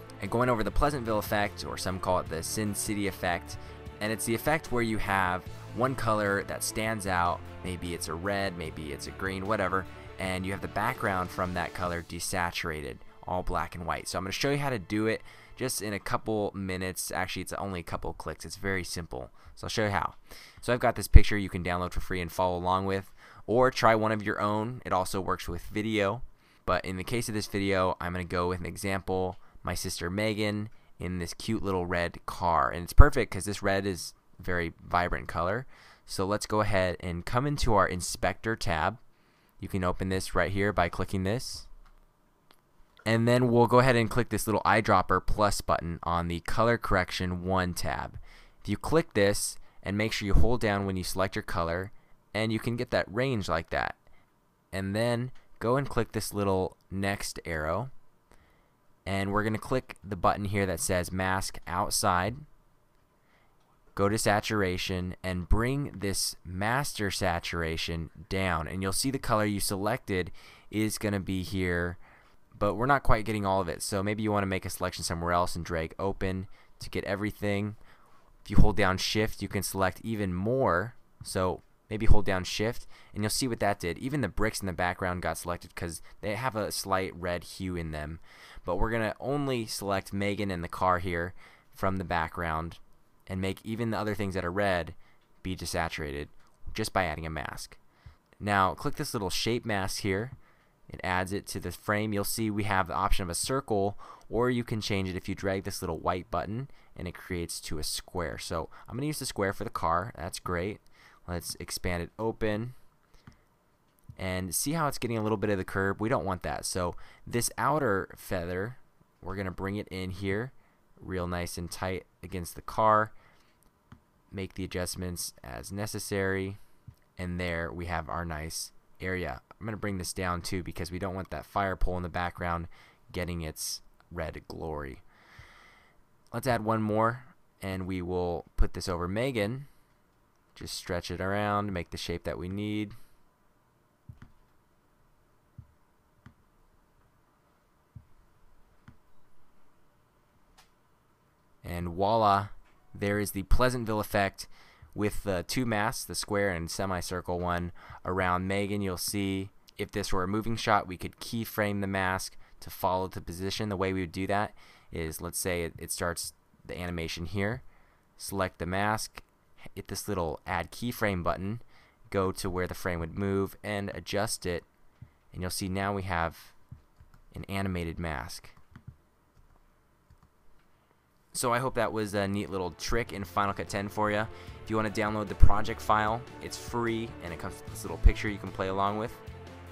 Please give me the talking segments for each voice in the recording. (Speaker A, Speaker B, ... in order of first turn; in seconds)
Speaker A: 0.2-39.0, 39.6-41.7, 43.0-54.0, 54.7-57.9, 59.0-62.4, 63.9-72.0, 72.5-77.8, 78.4-97.8, 98.4-100.3, 100.9-112.7, 114.2-123.1, 124.3-126.6, 127.2-135.0, 136.3-139.7, 140.5-142.9, 151.6-167.6, 168.2-174.7, 175.3-176.5, 177.3-178.5, 181.3-189.2